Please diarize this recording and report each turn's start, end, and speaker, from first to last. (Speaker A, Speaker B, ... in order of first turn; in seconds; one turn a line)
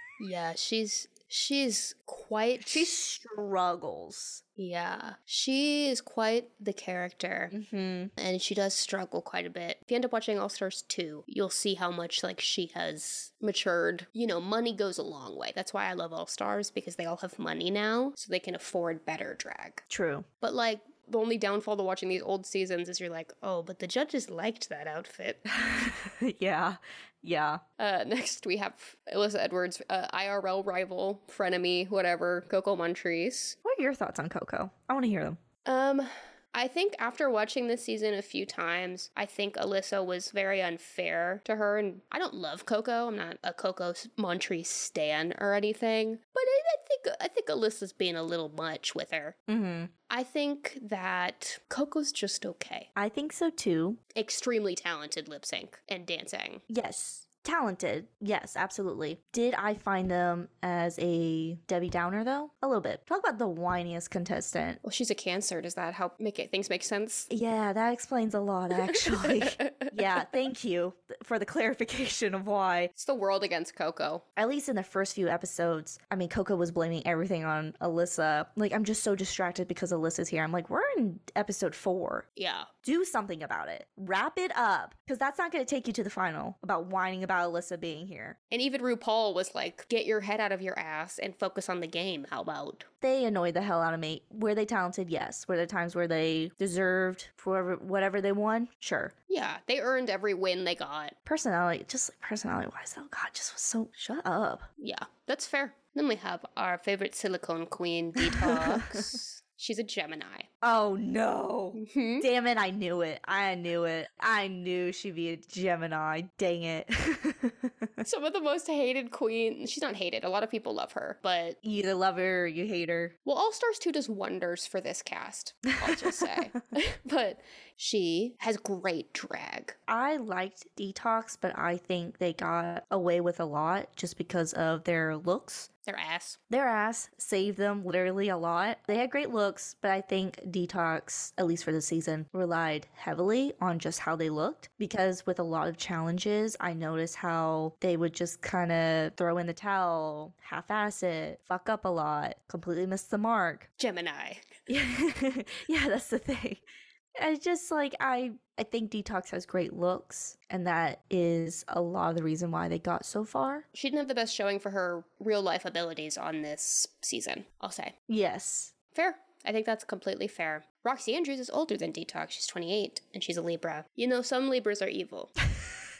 Speaker A: 0.2-3.0
Speaker B: 2.6-4.4
Speaker A: 4.6-7.5
Speaker B: 7.5-8.1
Speaker A: 8.2-19.8
Speaker B: 19.9-20.2
Speaker A: 20.4-25.4
Speaker B: 25.4-27.6
Speaker A: 27.8-33.6
Speaker B: 33.6-35.4
Speaker A: 35.6-49.4
Speaker B: 49.5-49.9
Speaker A: 50.1-52.9
Speaker B: 53.0-54.0
Speaker A: 54.1-56.6
Speaker B: 56.7-64.8
Speaker A: 64.8-67.3
Speaker B: 67.3-72.9
Speaker A: 69.1-69.9
Speaker A: 73.0-74.2
Speaker B: 74.4-82.2
Speaker A: 82.4-82.7
Speaker B: 82.8-88.4
Speaker A: 88.5-92.9
Speaker B: 93.0-99.1
Speaker A: 99.3-101.1
Speaker B: 101.2-104.7
Speaker A: 104.8-110.5
Speaker B: 108.2-109.0
Speaker B: 110.6-118.0
Speaker A: 111.7-112.3
Speaker A: 118.0-121.6
Speaker B: 121.6-123.1
Speaker A: 123.2-129.8
Speaker B: 125.8-126.4
Speaker B: 129.9-135.7
Speaker A: 135.8-136.4
Speaker B: 136.5-153.7
Speaker A: 153.8-154.6
Speaker B: 154.7-156.6
Speaker B: 157.2-163.6
Speaker A: 163.7-167.9
Speaker B: 168.1-168.7
Speaker A: 168.9-175.3
Speaker B: 175.4-175.8